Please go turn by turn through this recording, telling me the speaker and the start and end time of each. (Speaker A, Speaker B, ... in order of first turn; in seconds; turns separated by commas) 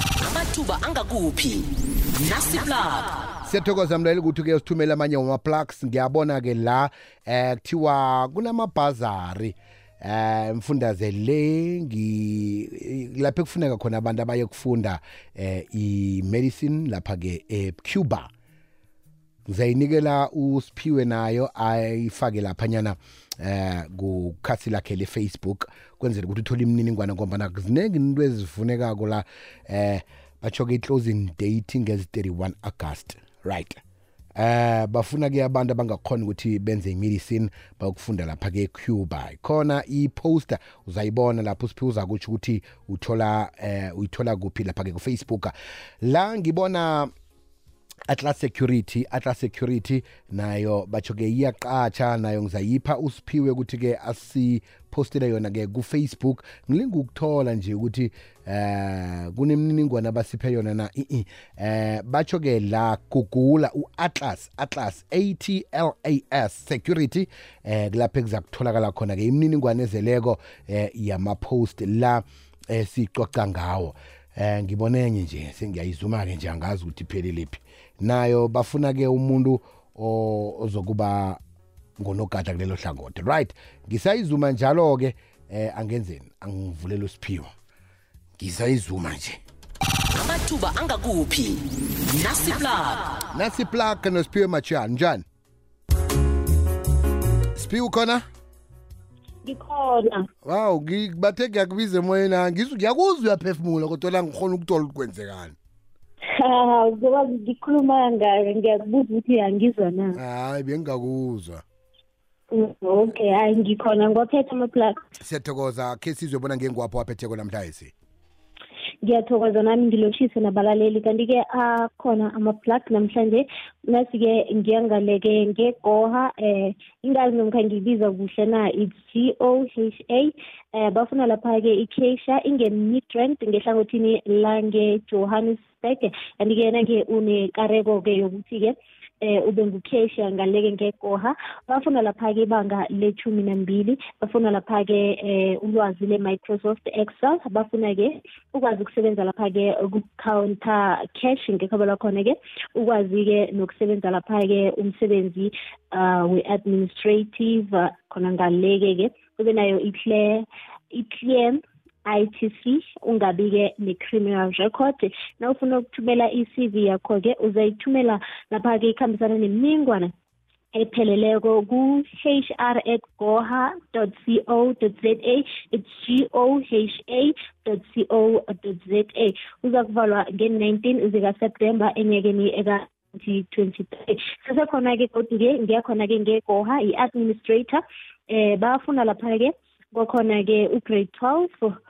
Speaker A: 0.2-3.1, Speaker B: 3.4-18.3, Speaker B: 19.5-33.8, Speaker B: 34.4-47.1, Speaker B: 48.1-81.4, Speaker B: 82.0-87.5, Speaker B: 88.4-89.4, Speaker A: 90.1-93.2, Speaker B: 93.3-95.2, Speaker B: 97.5-98.2, Speaker C: 99.4-100.3, Speaker B: 100.4-105.6, Speaker C: 106.4-110.2, Speaker B: 110.1-111.6, Speaker C: 112.5-115.0, Speaker B: 115.2-117.9, Speaker C: 119.0-170.1, Speaker C: 170.7-191.8